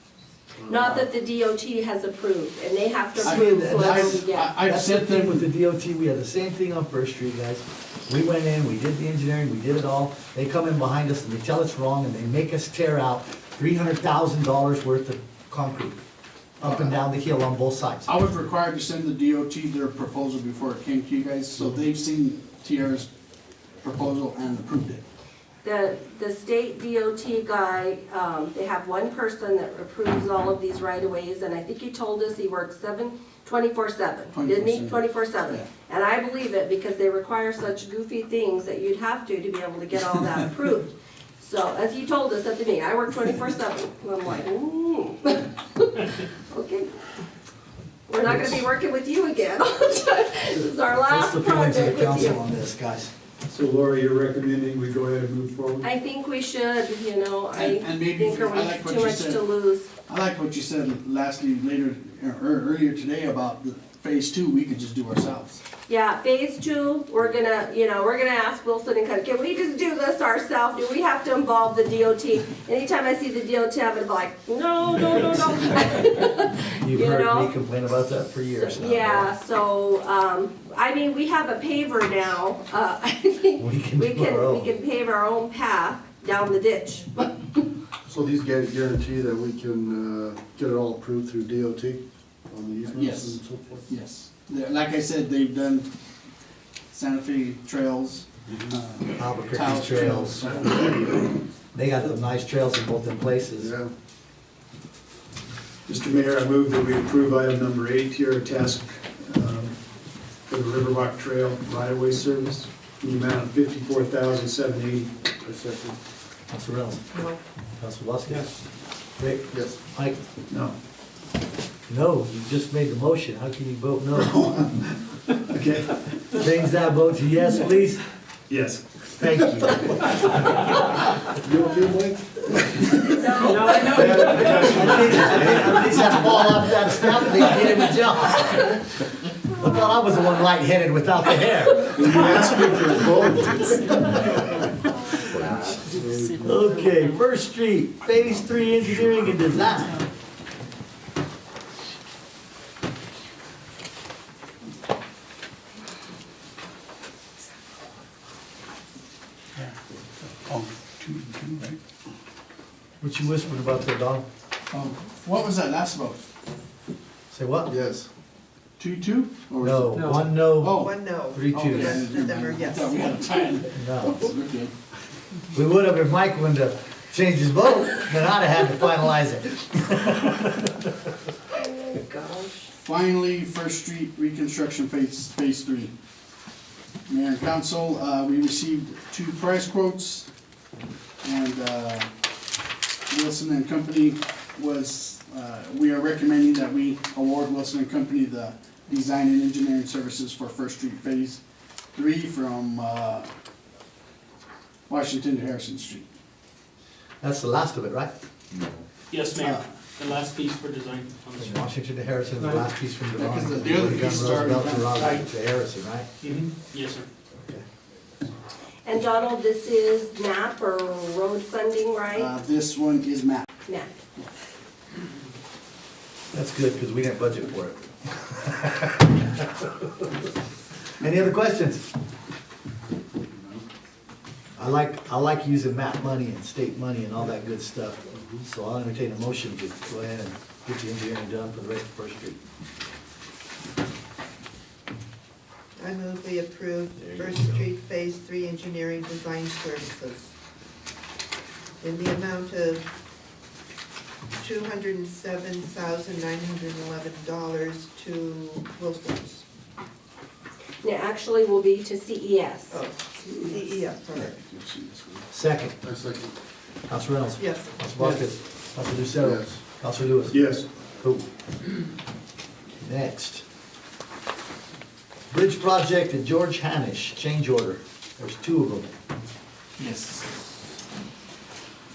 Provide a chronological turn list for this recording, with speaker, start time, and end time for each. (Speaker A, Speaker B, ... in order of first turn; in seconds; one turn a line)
Speaker A: 0.6-1.1
Speaker B: 0.7-4.6
Speaker C: 3.1-16.0
Speaker D: 3.2-5.4
Speaker C: 16.6-18.1
Speaker D: 16.6-17.0
Speaker D: 18.1-23.1
Speaker D: 23.8-25.0
Speaker B: 25.6-46.9
Speaker D: 34.3-35.7
Speaker B: 48.1-52.4
Speaker C: 51.1-53.1
Speaker E: 53.5-55.9
Speaker B: 55.8-59.9
Speaker D: 57.5-59.5
Speaker D: 60.1-65.6
Speaker B: 65.9-77.5
Speaker C: 76.8-79.3
Speaker B: 78.5-87.6
Speaker C: 83.6-84.7
Speaker A: 88.1-93.9
Speaker D: 92.9-93.4
Speaker D: 93.9-95.9
Speaker D: 96.9-100.9
Speaker A: 98.5-98.7
Speaker C: 99.2-100.5
Speaker A: 100.6-101.2
Speaker C: 101.7-103.7
Speaker A: 103.6-103.9
Speaker E: 105.9-109.8
Speaker E: 110.5-115.1
Speaker A: 115.4-116.0
Speaker C: 116.5-117.0
Speaker F: 117.1-117.4
Speaker C: 117.8-118.5
Speaker C: 119.2-120.2
Speaker A: 119.5-119.8
Speaker E: 120.5-120.7
Speaker C: 121.9-124.6
Speaker E: 124.2-124.9
Speaker E: 125.5-126.0
Speaker C: 126.3-128.0
Speaker E: 128.5-129.0
Speaker C: 129.2-130.1
Speaker A: 131.3-133.0
Speaker B: 133.2-134.4
Speaker G: 133.4-135.2
Speaker C: 133.8-142.4
Speaker E: 133.8-135.7
Speaker A: 133.9-134.5
Speaker A: 141.9-144.2
Speaker E: 142.2-143.1
Speaker C: 145.3-145.7
Speaker G: 145.7-147.2
Speaker A: 145.9-146.5
Speaker C: 146.4-150.0
Speaker D: 160.4-161.8
Speaker C: 163.0-164.2
Speaker D: 164.7-166.2
Speaker C: 167.3-167.7
Speaker A: 167.7-168.1
Speaker D: 168.8-169.5
Speaker A: 169.5-170.2
Speaker C: 169.6-172.1
Speaker G: 170.0-170.2
Speaker D: 170.5-171.0
Speaker F: 170.7-173.2
Speaker D: 171.5-174.7
Speaker C: 173.7-174.3
Speaker C: 175.5-180.8
Speaker B: 181.5-182.7
Speaker D: 182.8-185.9
Speaker D: 187.1-190.3
Speaker D: 191.2-192.1
Speaker D: 193.1-201.4
Speaker D: 201.9-203.3
Speaker D: 204.9-206.1
Speaker C: 207.2-208.1
Speaker G: 209.1-211.6
Speaker D: 209.3-209.8
Speaker C: 211.3-216.1
Speaker D: 213.2-215.2
Speaker G: 215.0-215.3
Speaker G: 216.2-217.1
Speaker B: 218.8-222.3
Speaker D: 222.1-223.5
Speaker C: 226.3-229.2
Speaker C: 231.0-231.8
Speaker A: 233.2-233.6
Speaker C: 234.6-242.4
Speaker A: 238.2-238.4
Speaker F: 245.8-250.3
Speaker C: 247.0-247.6
Speaker F: 251.8-252.9
Speaker F: 254.3-259.4
Speaker B: 260.8-262.8
Speaker F: 262.7-264.4
Speaker A: 264.1-265.2
Speaker C: 265.3-265.7
Speaker A: 265.8-266.3
Speaker C: 266.9-270.4
Speaker F: 267.4-267.7
Speaker A: 269.2-269.6
Speaker E: 270.3-270.7
Speaker C: 271.0-271.2
Speaker C: 272.8-273.4
Speaker C: 275.3-278.9
Speaker D: 279.8-280.3